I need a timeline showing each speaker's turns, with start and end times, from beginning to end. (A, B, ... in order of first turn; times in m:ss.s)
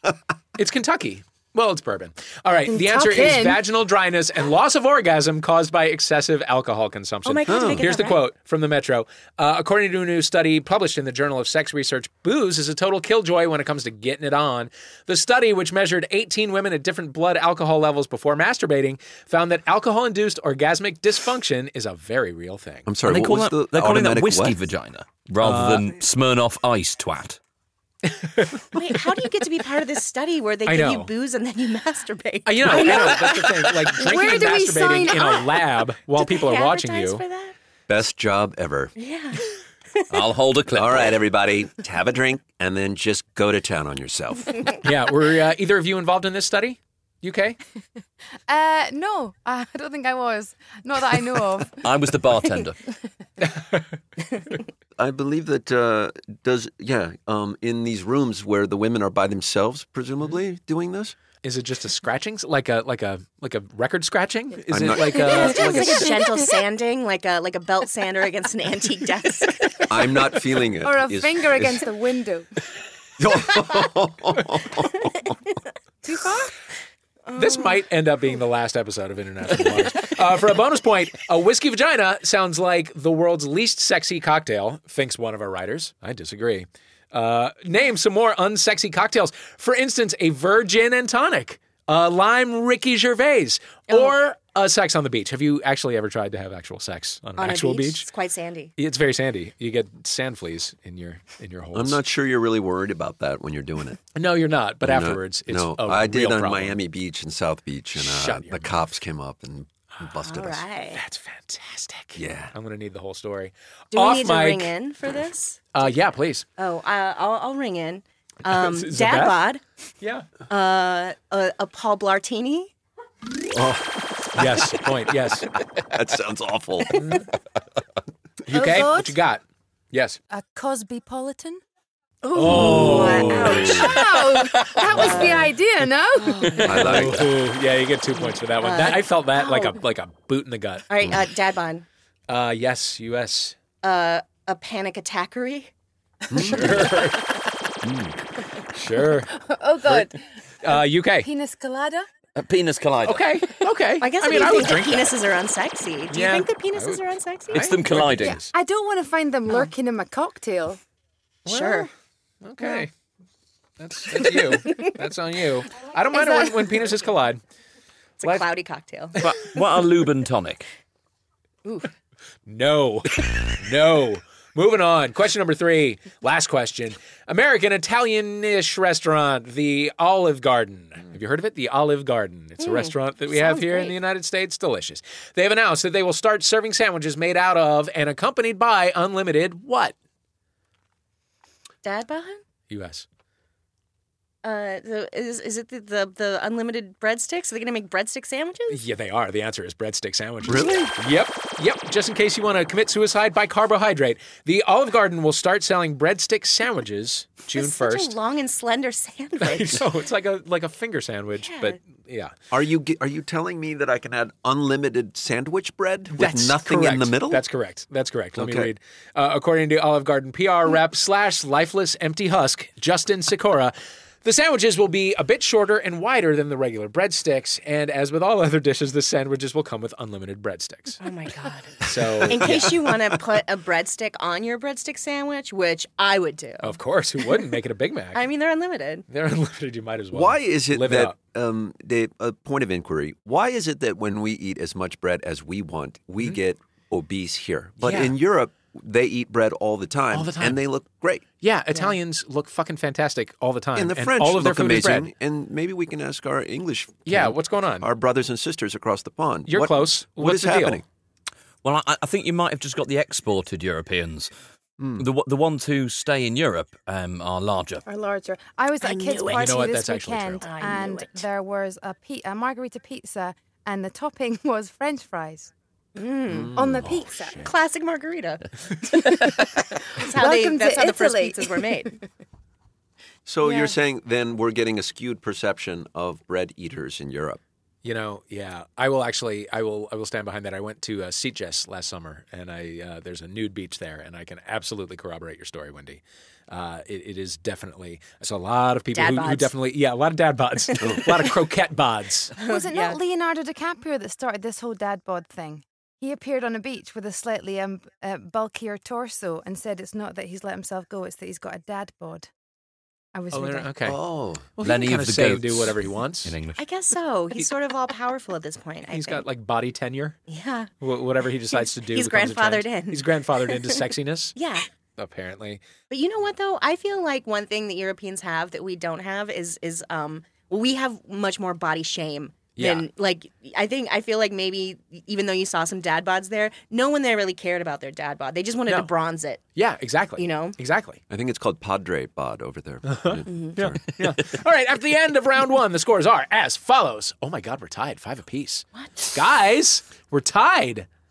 0:00.6-0:22.9 A
0:02.7-0:03.6 B
0:07.3-0:08.2 C
0:07.5-0:07.9 D
0:22.9-0:24.6 D
0:23.1-0:27.4 E
0:25.4-0:25.9 A
0:28.1-0:28.7 A
0:28.7-0:33.5 C
0:30.7-0:31.1 A
0:32.4-0:37.2 A
0:32.7-0:33.1 B
0:33.9-0:35.5 B
0:34.4-0:35.3 C
0:36.2-0:37.5 C
0:37.9-0:39.0 D
0:39.0-0:40.0 C
0:40.1-0:41.2 E
0:40.7-0:44.8 D
0:44.8-0:47.6 A
0:48.5-0:51.9 B
0:51.8-0:52.8 E
0:53.4-0:53.8 A
0:55.0-1:01.2 D
1:01.4-1:06.2 A
1:04.7-1:05.7 D
1:05.1-1:10.0 C
1:05.4-1:06.5 B
1:09.9-1:11.9 D
1:10.8-1:12.5 B
1:13.2-1:15.4 D
1:16.0-1:16.6 B
1:17.3-1:17.8 C
1:17.4-1:38.1 A
1:37.4-1:38.7 C
1:38.8-1:42.0 A
1:41.7-1:44.0 D
1:44.2-1:46.8 A
1:44.8-1:50.6 D
1:48.0-1:48.7 A
1:50.2-1:51.0 C
1:50.9-1:54.7 A
1:52.2-1:52.5 D
1:53.9-1:55.7 C
1:55.7-1:56.4 A
1:56.6-1:59.6 C
1:58.5-1:59.4 A
2:00.0-2:00.3 A
2:00.5-2:02.7 C
2:03.5-2:04.8 D
2:04.4-2:05.5 A
2:05.7-2:07.0 D
2:07.0-2:07.3 A
2:08.4-2:10.2 A
2:08.5-2:09.2 B
2:10.3-2:11.6 B
2:12.2-2:14.2 C
2:12.3-2:13.8 A
2:12.5-2:13.8 D
2:13.2-2:16.8 B
2:14.8-2:15.5 C
2:16.2-2:16.9 C
2:16.6-2:17.3 D
2:16.7-2:20.9 A
2:18.6-2:19.8 C
2:20.9-2:21.9 C
2:22.3-2:23.6 A
2:23.8-2:25.7 C
2:26.3-2:27.0 D
2:26.4-2:27.3 A
2:28.7-2:29.3 A
2:29.3-2:32.1 B
2:30.6-2:31.3 A
2:32.4-2:33.3 E
2:33.0-2:35.2 A
2:34.0-2:37.8 C
2:36.1-2:38.5 A
2:37.5-2:38.4 E
2:38.2-2:40.8 B
2:41.5-2:41.9 C
2:41.5-2:41.9 A
2:42.4-2:42.9 A
2:43.8-2:47.4 A
2:46.1-2:46.5 B
2:48.2-2:49.6 C
2:49.2-2:50.7 E
2:52.5-3:10.0 A
3:02.6-3:04.0 C
3:11.8-3:12.4 C
3:12.7-3:13.0 A
3:14.4-3:18.8 C
3:18.7-3:28.1 A
3:20.4-3:20.9 D
3:27.6-3:29.9 C
3:29.4-3:32.3 A
3:31.4-3:31.8 C
3:32.5-3:37.4 D
3:36.1-3:51.0 A
3:38.4-3:38.7 D
3:51.0-3:56.8 C
3:51.8-3:52.9 A
3:56.6-3:58.3 A
3:58.2-3:59.0 C
3:59.1-4:01.2 A
4:00.1-4:11.2 D
4:07.8-4:08.2 A
4:10.1-4:10.6 A
4:11.4-4:15.1 A
4:13.8-4:20.8 D
4:17.1-4:17.9 A
4:19.5-4:20.8 A
4:21.6-4:24.3 E
4:24.8-4:25.1 D
4:25.0-4:27.8 E
4:27.9-4:35.5 B
4:28.8-4:29.7 C
4:29.3-4:30.5 A
4:30.4-4:31.3 C
4:36.0-4:36.6 C
4:36.3-4:36.9 D
4:36.5-4:37.4 B
4:36.8-4:37.5 A
4:37.4-4:38.5 C
4:38.9-4:42.0 B
4:39.9-4:42.0 C
4:43.3-4:47.4 D
4:43.4-4:43.7 B
4:47.8-5:02.3 A
4:58.9-4:59.5 C
5:00.8-5:01.2 D
5:02.4-5:03.0 C
5:02.4-5:12.3 B
5:13.1-5:13.7 B
5:13.3-5:14.0 A
5:13.8-5:14.5 D
5:14.6-5:16.4 A
5:14.6-5:16.6 E
5:16.6-5:19.3 C
5:18.9-5:20.2 A
5:20.3-5:20.7 C
5:20.8-5:24.4 A
5:21.5-5:23.7 C
5:24.4-5:24.7 C
5:25.0-5:25.6 A
5:25.9-5:39.4 C
5:32.6-5:32.9 A
5:39.6-5:41.0 A
5:40.2-5:40.6 C
5:41.1-5:43.8 D
5:42.9-5:50.9 A
5:43.3-5:43.5 C
5:48.8-5:49.0 C